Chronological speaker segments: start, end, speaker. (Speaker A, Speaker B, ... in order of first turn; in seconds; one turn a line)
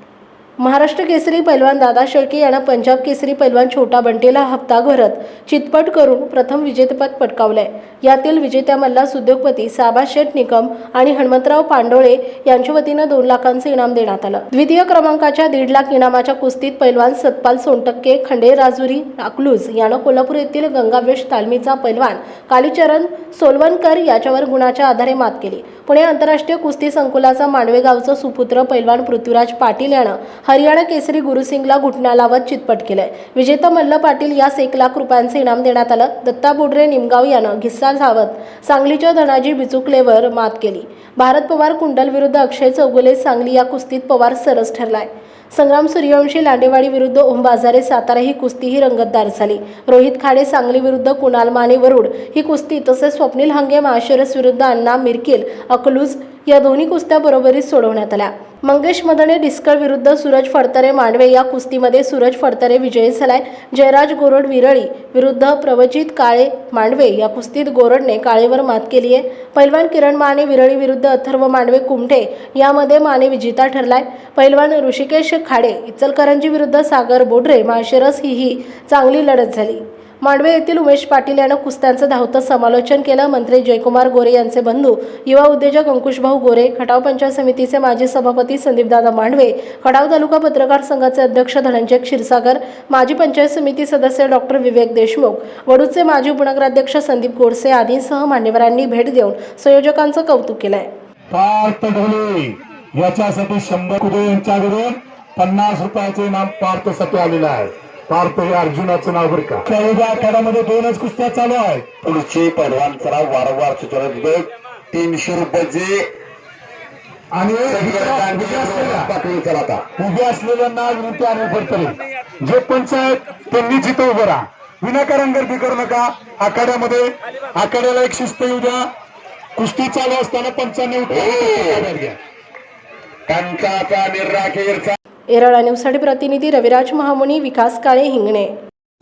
Speaker A: 0.6-100.9
Speaker B: 101.3-111.9
Speaker C: 112.0-116.1
Speaker B: 117.3-119.1
Speaker C: 117.7-119.9
Speaker B: 120.0-128.8
Speaker B: 129.6-132.2
Speaker C: 131.1-131.9
Speaker C: 133.3-134.9
Speaker A: 135.3-138.5